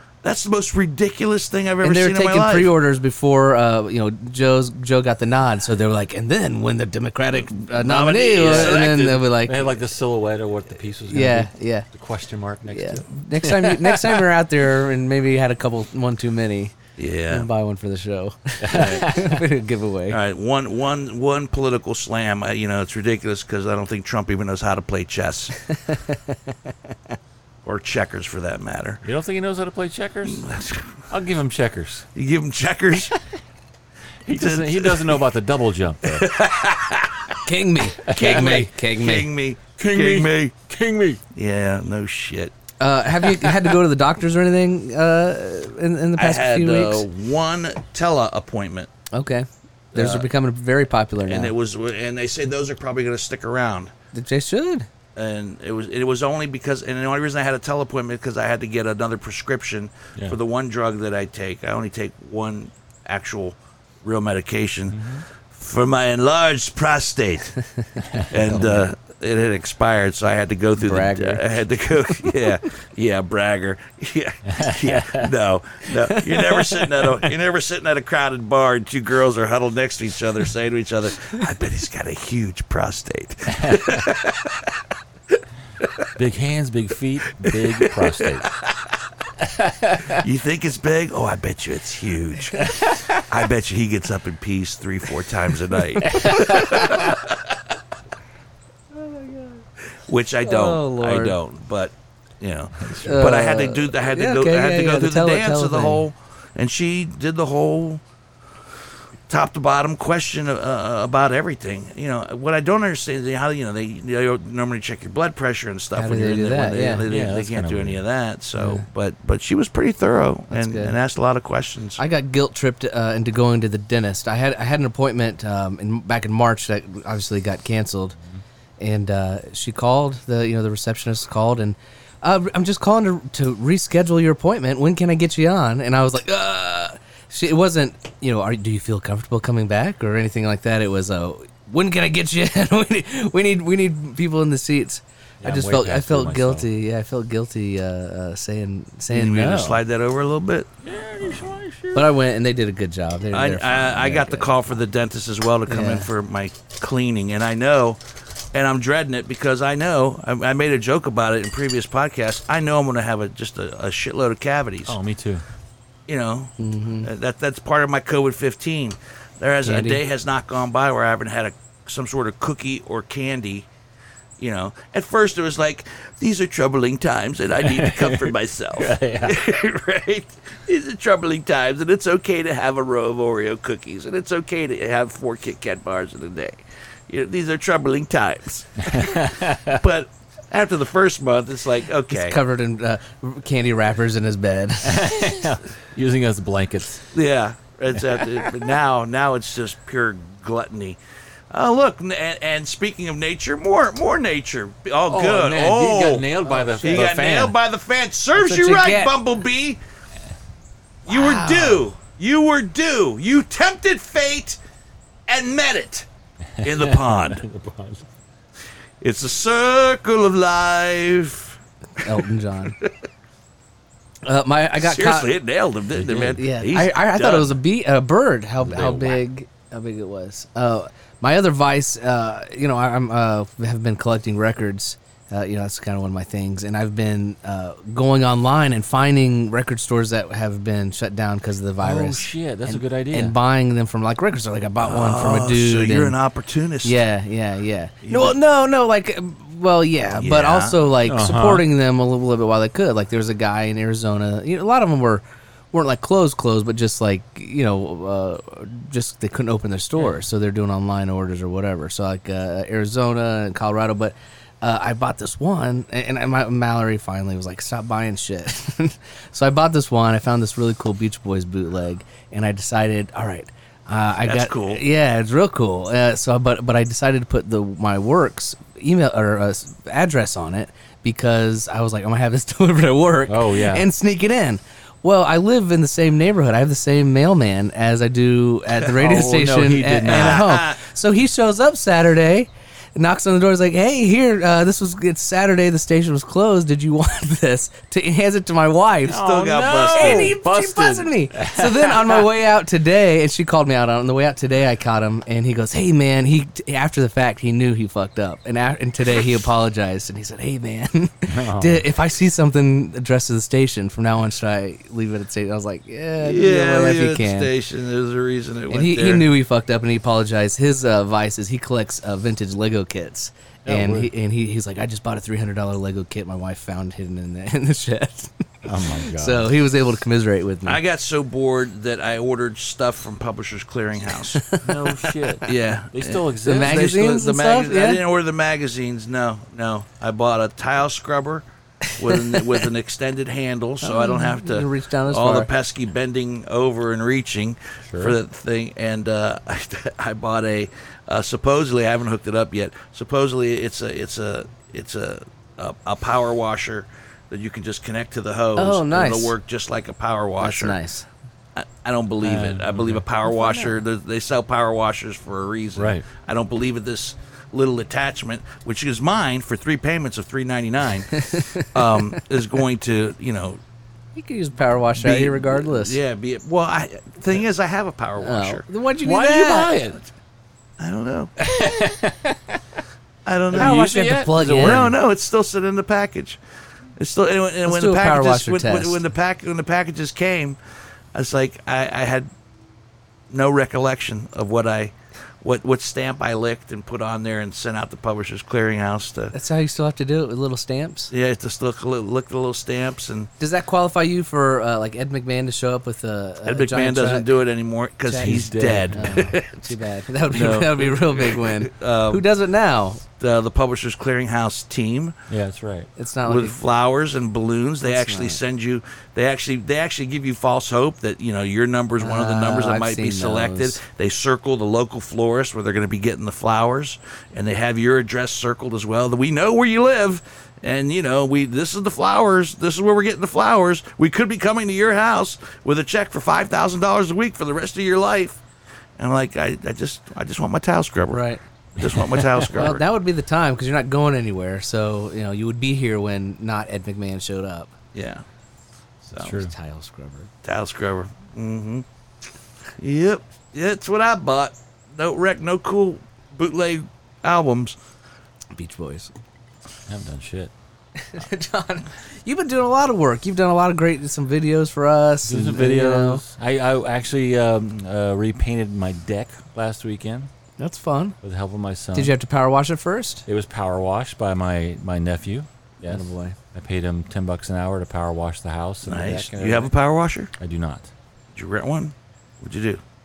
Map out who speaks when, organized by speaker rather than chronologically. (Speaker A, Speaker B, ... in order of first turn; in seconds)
Speaker A: 0.2-2.7, 7.6-9.2, 17.0-17.5, 20.1-25.5, 27.6-29.0, 30.2-31.0, 32.1-33.1, 34.3-35.2, 36.0-37.4, 38.0-40.5, 41.3-42.5, 46.2-48.9, 49.9-50.3, 51.2-53.9, 55.1-67.6, 68.3-84.7, 87.4-88.5, 90.1-97.5, 100.1-108.0, 109.3-122.0, 149.1-150.7, 153.3-158.0, 158.5-165.0, 166.1-173.7, 174.4-192.4, 197.1-201.0, 201.5-206.3, 206.8-209.8, 211.1-214.6, 215.3-216.1, 216.6-217.4, 219.0-221.6, 224.8-227.5, 244.8-247.0, 248.0-248.3, 250.2-250.8, 274.2-274.8, 290.1-290.8, 299.1-300.4, 316.2-319.3, 330.6-334.5, 335.4-341.4, 341.9-360.8, 361.6-373.6, 375.0-378.6, 380.8-381.3, 383.2-386.4, 387.0-390.6, 391.1-392.3, 393.3-399.3, 401.1-403.3, 406.4-409.6, 410.3-412.2, 413.2-415.1, 416.2-438.4, 439.0-441.2, 441.8-442.8, 447.9-448.2, 449.1-449.4, 450.4-451.8, 452.8-457.8, 478.9-480.3, 481.3-482.8
Speaker B: 1.8-9.7, 11.1-11.9, 12.7-16.7, 17.3-20.2, 25.8-26.5, 37.4-39.3, 42.8-47.0, 49.1-51.5, 54.1-54.9, 68.2-68.9, 70.8-71.5, 76.1-76.7, 96.1-96.7, 98.9-99.6, 100.4-101.3, 103.0-106.0, 116.0-117.0, 118.6-118.8, 120.5-120.9, 122.0-128.2, 128.8-149.8, 151.9-154.6, 155.7-156.1, 166.6-167.1, 169.6-170.0, 192.1-195.2, 206.5-207.0, 208.3-209.1, 211.1-211.8, 222.0-222.8, 224.2-225.3, 226.3-246.1, 246.8-299.2, 299.9-317.5, 318.7-330.8, 334.3-335.5, 336.4-338.0, 341.9-342.6, 343.8-345.5, 358.6-359.3, 360.4-361.1, 371.1-372.2, 374.1-376.0, 378.2-379.7, 383.5-384.9, 387.6-389.0, 399.3-401.1, 403.4-407.3, 408.1-413.0, 416.0-416.6, 417.9-418.4, 422.0-423.8, 441.1-441.4, 442.5-447.7, 449.2-450.3, 458.5-459.1, 461.0-466.2, 470.6-471.2, 471.9-473.2, 475.8-476.4
Speaker C: 8.4-14.3, 18.6-19.4, 29.0-30.4, 31.1-32.0, 34.2-36.3, 38.1-38.7, 39.8-41.2, 64.9-65.2, 68.0-68.6, 74.5-75.3, 83.5-84.0, 86.2-88.5, 89.4-90.2, 92.6-93.2, 96.0-97.2, 102.8-103.3, 117.1-118.0, 145.4-146.7, 150.8-152.1, 164.8-165.4, 177.6-179.4, 188.8-189.8, 194.8-197.0, 198.0-198.5, 205.1-207.6, 216.6-218.1, 225.9-226.4, 228.6-229.2, 241.8-243.3, 251.1-251.6, 283.3-283.9, 288.9-290.4, 299.1-302.3, 311.3-311.9, 323.6-324.1, 328.6-329.5, 334.6-336.9, 347.9-348.1, 362.2-363.1, 365.8-366.1, 379.0-380.0, 381.4-382.8, 383.5-384.9, 408.2-409.2, 415.3-415.9, 441.8-442.7, 449.1-449.5, 459.9-460.5, 465.2-470.3, 471.2-472.1, 473.2-479.7, 480.4-480.9